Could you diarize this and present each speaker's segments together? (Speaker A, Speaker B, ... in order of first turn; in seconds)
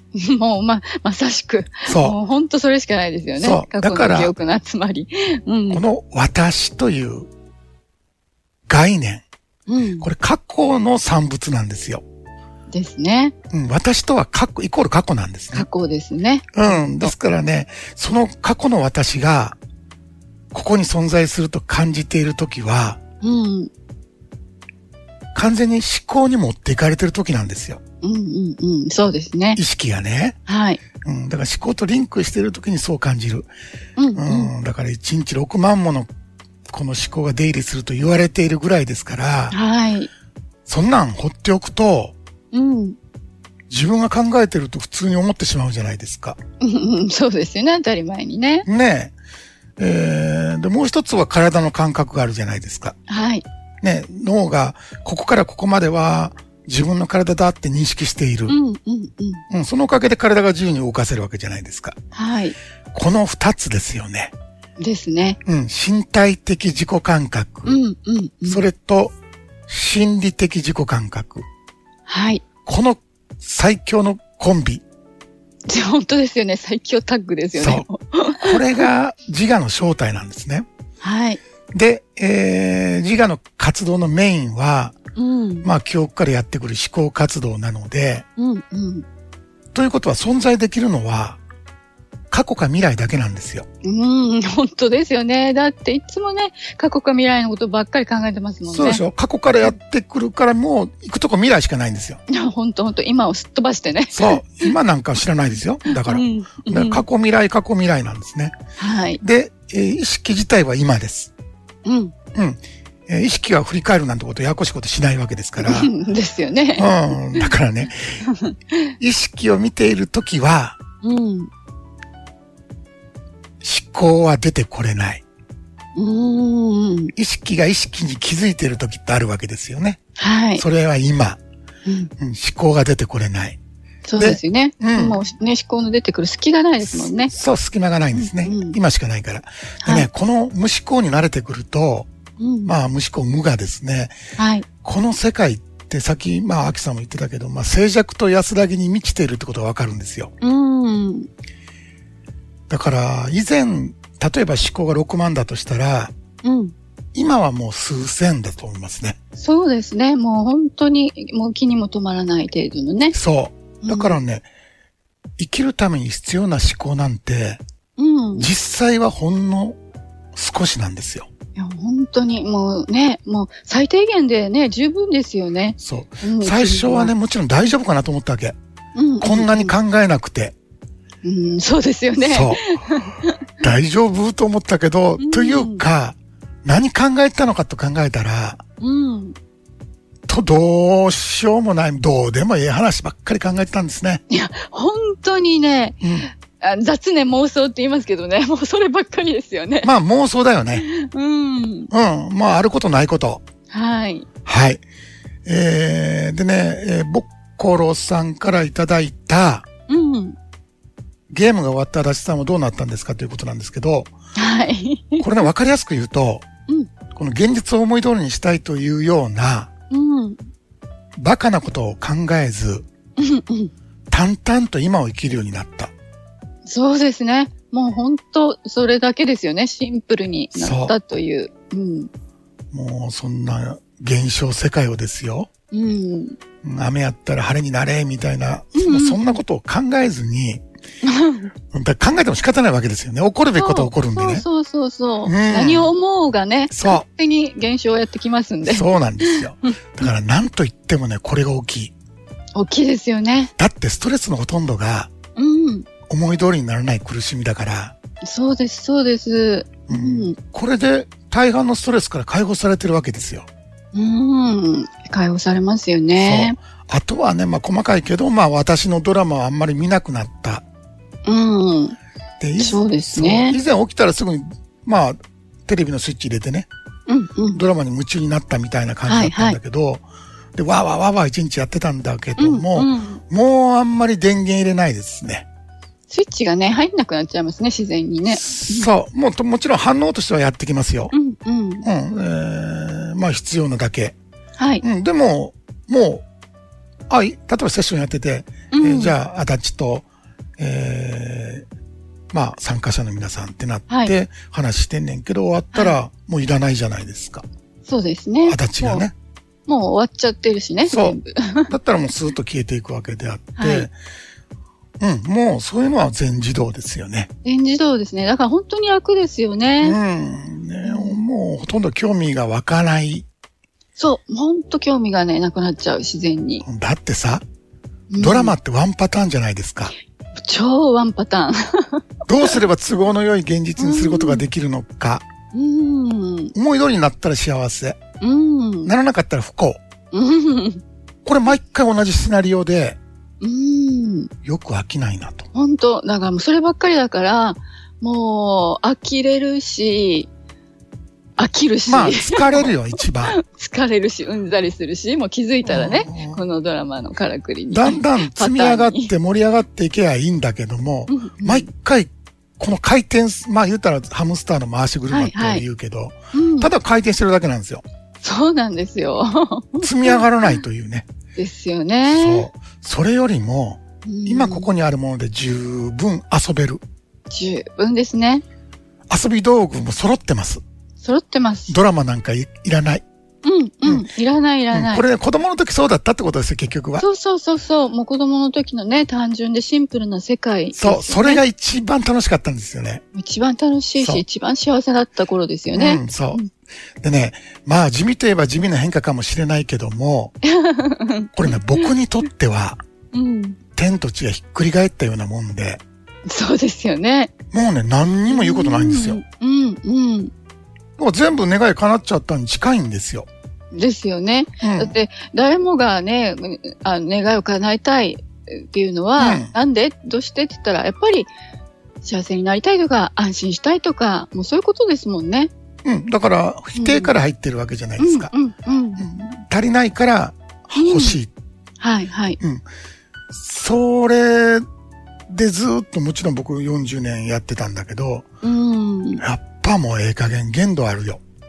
Speaker A: 0.1-5.8, 9.7-10.1, 12.7-13.3, 15.5-17.1, 23.2-23.7, 28.0-29.6, 30.5-30.8, 34.0-34.5, 39.5-40.1, 42.5-43.0, 46.6-48.7, 53.1-53.5, 58.5-59.4, 62.1-62.6, 64.8-65.4, 67.7-68.6, 72.1-72.4, 75.7-78.9, 81.0-81.4, 85.2-85.7, 88.4-89.0, 93.8-99.0, 102.3-104.7, 105.9-107.0, 108.8-109.2, 111.8-112.1, 115.6-117.5, 118.3-118.9, 121.0-121.5, 126.0-127.1, 130.2-130.7, 131.9-132.1, 134.1-137.3, 138.1-138.8, 139.8-140.1, 142.4-142.7, 144.4-144.7, 150.4-151.3, 156.4-156.7, 159.4-163.2, 163.8-164.2, 168.0-168.5, 171.6-177.1, 179.0-179.8, 181.2-183.4, 185.2-185.8, 188.8-189.3, 194.3-199.9, 200.8-201.9, 203.7-204.3, 209.9-210.4, 214.4-215.3, 219.9-220.4, 223.2-223.7, 226.7-232.1, 235.7-236.4, 238.8-239.4, 241.0-241.5, 243.6-249.7, 252.6-253.5, 255.4-255.9, 258.2-260.4, 263.9-266.6, 271.3-272.0, 272.6-273.6, 277.1-277.6, 279.1-279.6, 282.4-283.2, 286.1-288.9, 291.1-291.9, 294.6-294.8, 298.7-299.1, 307.9-309.1, 309.7-311.7, 313.6-313.9, 317.4-320.0, 320.8-321.2, 324.0-326.6, 328.1-328.6, 330.4-332.6, 333.8-334.4, 335.5-336.6, 338.2-338.9, 340.1-340.8, 343.4-344.3, 345.5-350.3, 351.4-359.1, 361.1-361.7, 365.1-365.6, 366.3-366.7, 368.2-370.6, 371.4-372.5, 374.1-374.7, 377.3-378.4, 381.0-381.8, 383.4-385.0, 387.0-391.4, 393.1-396.5, 400.4-401.9, 403.1-403.6, 406.3-407.3, 408.3-410.3, 413.7-421.3, 422.0-425.5, 426.8-427.1, 428.0-429.0, 430.8-431.2, 431.8-432.4, 438.4-439.2
Speaker B: 1.9-2.2, 3.4-4.3, 5.7-7.3, 8.7-9.2, 10.0-12.0, 13.5-15.7, 16.5-19.6, 20.5-23.0, 25.3-27.8, 29.6-30.4, 31.0-33.5, 34.2-36.1, 36.7-39.6, 40.7-42.1, 43.7-46.4, 48.6-49.1, 49.8-53.0, 53.8-58.6, 59.5-62.0, 62.9-64.3, 65.5-67.8, 68.5-69.2, 69.7-71.5, 72.7-74.8, 77.6-77.9, 78.4-80.7, 81.7-85.0, 85.6-88.3, 89.7-91.4, 92.3-93.7, 98.7-102.2, 104.1-108.6, 109.2-111.3, 112.3-115.9, 116.8-118.2, 119.0-120.8, 123.6-125.2, 127.2-130.0, 130.6-131.4, 132.2-133.6, 134.2-135.2, 136.8-142.1, 142.7-144.2, 144.8-150.3, 152.7-156.1, 157.2-159.2, 163.1-164.5, 165.4-167.6, 168.4-169.8, 170.3-171.3, 175.8-178.6, 179.2-180.6, 182.2-182.8, 183.6-188.6, 190.3-194.2, 196.0-196.3, 199.8-200.9, 201.9-203.4, 204.5-204.8, 205.4-209.7, 211.3-214.1, 215.2-216.4, 217.1-219.7, 221.2-222.9, 224.1-225.9, 230.6-230.9, 232.7-235.5, 236.6-240.6, 241.7-244.4, 245.2-245.9, 246.7-247.1, 248.7-251.9, 253.6-255.1, 256.1-257.9, 259.9-263.5, 266.2-270.6, 272.4-276.7, 277.5-280.0, 280.6-285.5, 288.3-291.1, 291.8-294.2, 294.8-296.2, 297.1-300.1, 300.6-301.7, 302.3-307.4, 308.5-309.1, 310.9-313.9, 315.0-317.3, 319.8-323.3, 326.6-327.4, 328.2-329.9, 332.3-335.3, 336.6-338.0, 338.9-339.8, 341.2-343.0, 344.4-345.5, 351.9-353.4, 355.6-356.4, 357.7-367.8, 369.8-371.1, 372.1-376.8, 379.1-380.6, 381.7-383.1, 384.7-387.1, 390.8-393.0, 395.7-396.4, 397.0-400.3, 401.4-402.8, 403.8-405.8, 407.5-409.2, 411.0-413.3, 414.6-414.9, 419.2-419.5, 425.9-428.3, 429.0-431.3, 433.3-434.7, 435.3-438.3, 439.2-441.2